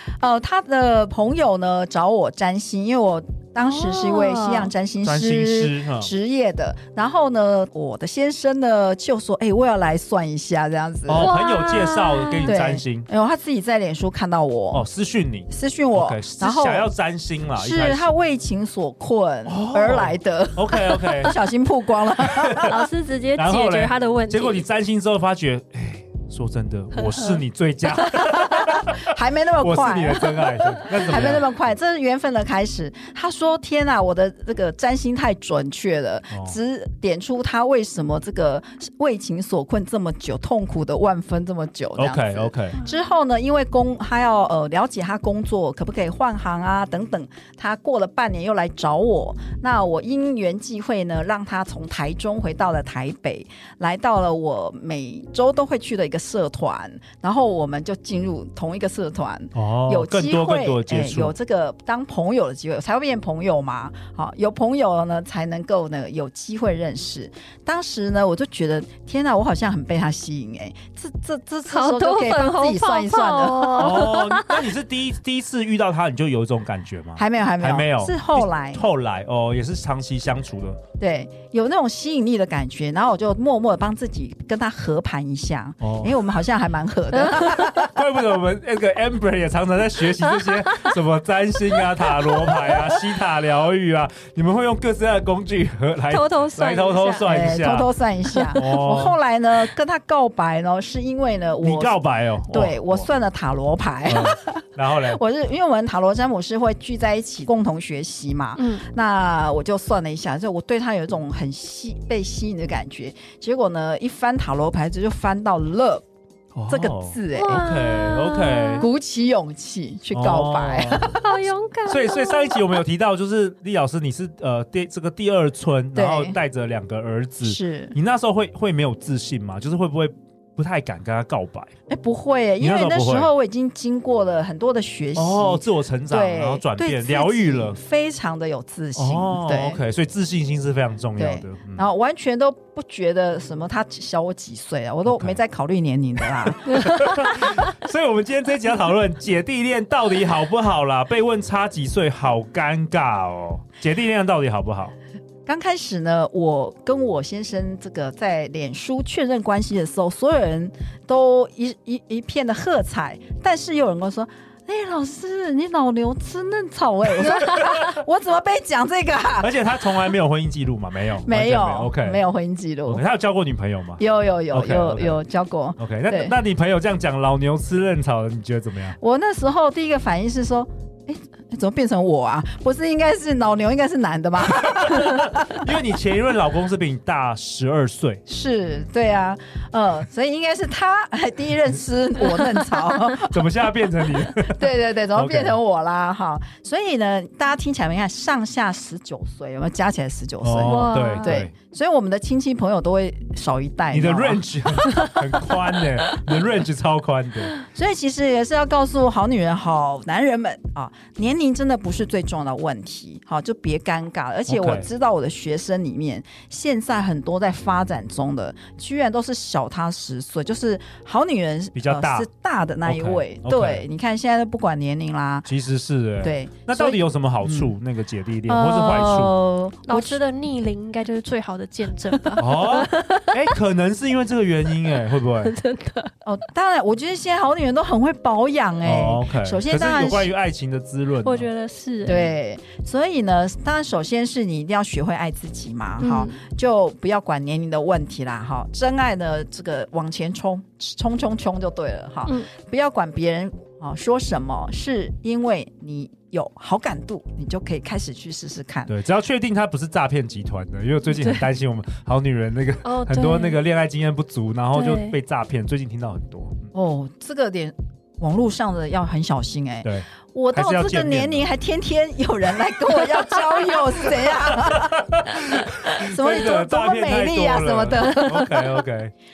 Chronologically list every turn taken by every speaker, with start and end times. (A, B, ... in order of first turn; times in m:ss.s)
0:00.2-0:11.3 A
0:03.6-0:04.7 B
0:05.0-0:06.1 C
0:11.1-0:13.1 C
0:11.2-0:12.5 B
0:12.4-0:14.8 A
0:14.7-0:18.1 C
0:15.5-0:16.9 A
0:17.6-0:22.8 A
0:19.5-0:21.3 C
0:22.2-0:22.7 C
0:22.6-0:24.6 B
0:23.4-0:31.5 C
0:27.0-0:27.4 B
0:28.2-1:14.1 A
0:36.3-0:36.6 C
0:42.0-0:42.8 C
0:59.5-1:01.3 C
1:11.7-1:14.6 B
1:13.8-1:20.8 C
1:17.2-1:18.8 A
1:21.0-1:28.0 A
1:25.8-1:26.1 C
1:27.3-1:27.6 B
1:27.7-1:37.9 C
1:30.3-1:30.9 B
1:36.1-1:37.3 B
1:37.2-1:42.0 A
1:38.3-1:38.6 B
1:38.5-1:39.2 C
1:41.6-1:43.1 C
1:42.5-1:56.0 A
1:44.1-1:45.2 C
1:48.6-1:48.8 B
1:56.5-1:58.8 C
1:56.7-1:57.6 A
1:57.3-1:58.9 B
1:58.8-2:01.3 A
2:00.1-2:01.2 C
2:01.1-2:02.8 B
2:01.8-2:11.7 C
2:05.9-2:06.4 A
2:07.4-2:08.0 A
2:11.9-2:19.8 A
2:12.6-2:13.3 C
2:15.1-2:17.8 C
2:19.0-2:21.8 C
2:21.2-2:27.3 A
2:25.0-2:25.4 C
2:26.6-2:34.9 C
2:35.4-2:49.5 A
2:47.2-2:48.0 C
2:49.4-2:52.2 C
2:51.2-2:53.0 A
2:52.9-2:55.2 C
2:54.0-2:56.4 A
2:55.8-2:59.0 C
2:59.0-3:05.6 A
3:04.5-3:08.2 C
3:08.3-3:13.5 A
3:13.3-3:15.6 C
3:14.2-3:25.5 A
3:20.4-3:21.5 C
3:20.6-3:21.4 B
3:23.9-3:27.5 C
3:27.7-3:45.5 A
3:34.5-3:34.9 C
3:41.7-3:42.3 C
3:42.8-3:43.8 C
3:45.4-3:49.3 C
3:46.2-3:47.7 A
3:48.4-3:50.2 A
3:49.8-3:53.5 B
3:52.4-3:55.5 C
3:54.9-3:56.1 B
3:56.2-4:00.3 A
3:58.8-4:01.5 C
4:01.2-4:02.3 B
4:02.0-4:18.9 A
4:06.0-4:06.4 B
4:18.9-4:26.7 C
4:21.1-4:21.4 B
4:22.8-4:23.6 B
4:24.7-4:25.2 B
4:26.7-4:35.0 A
4:29.8-4:31.5 C
4:34.0-4:39.1 C
4:36.0-4:38.8 A